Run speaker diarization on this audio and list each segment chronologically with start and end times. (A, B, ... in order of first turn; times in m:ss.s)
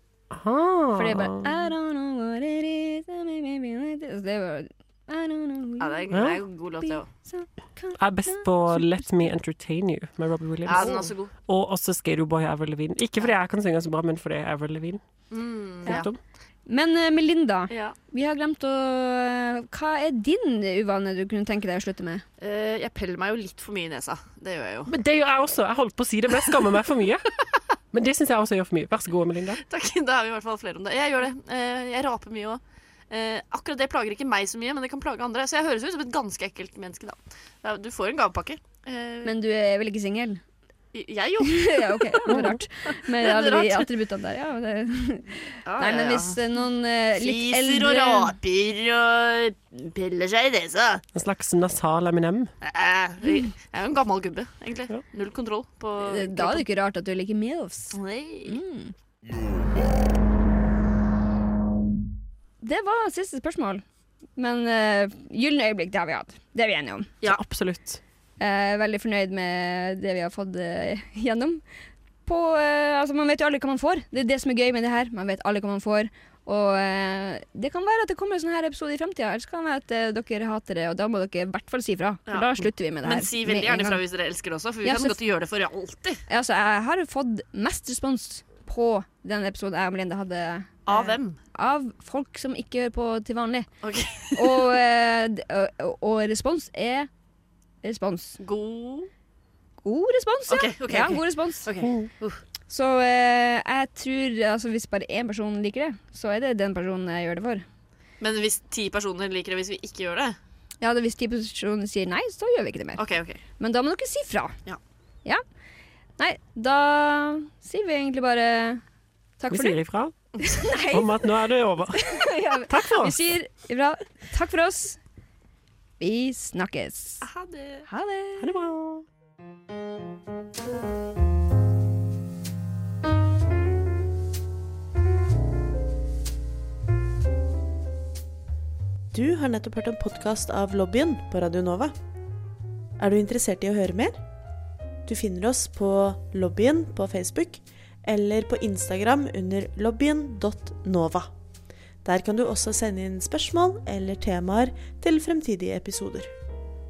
0:00.3-0:01.6 A
0:00.9-0:06.1 B
0:05.8-0:07.1 C
0:06.1-0:06.4 A
0:06.8-0:09.3 B
0:08.0-0:15.0 A
0:10.7-0:11.3 C
0:10.7-0:11.1 B
0:15.3-0:16.1 C
0:15.8-0:16.2 A
0:16.7-0:22.2 B
0:17.7-0:18.0 C
0:22.4-0:24.9 C
0:24.9-0:27.3 A
0:27.9-0:29.6 A
0:29.7-0:39.3 C
0:39.2-0:40.4 B
0:40.9-0:43.9 C
0:41.4-0:48.4 B
0:42.3-0:42.6 A
0:45.7-0:46.4 C
0:47.2-0:51.0 C
0:51.1-0:52.5 A
0:52.6-0:56.6 C
0:56.0-0:58.9 B
0:57.9-0:58.6 C
1:02.6-1:03.8 B
1:04.4-1:07.1 B
1:07.2-1:08.0 A
1:08.4-1:11.6 B
1:12.3-1:24.0 B
1:22.3-1:26.2 C
1:24.8-1:25.2 B
1:26.3-1:33.7 B
1:30.9-1:31.4 C
1:33.8-1:34.8 C
1:34.3-1:37.1 B
1:37.8-1:38.4 B
1:38.4-1:39.1 C
1:39.8-1:41.7 B
1:40.5-1:42.4 C
1:41.8-1:42.1 A
1:42.7-1:47.6 B
1:48.2-1:50.4 C
1:50.8-1:53.0 B
1:53.0-1:53.4 C
1:53.6-1:54.6 B
1:56.2-1:58.8 B
1:59.4-1:59.8 B
1:59.5-2:00.2 A
2:00.4-2:01.1 B
2:00.9-2:03.3 A
2:01.9-2:05.0 B
2:06.0-2:07.3 B
2:07.2-2:07.8 C
2:07.9-2:08.6 B
2:08.4-2:09.0 A
2:19.1-2:21.9 D
2:23.0-2:24.2 D
2:25.1-2:31.3 D
2:32.0-2:36.3 D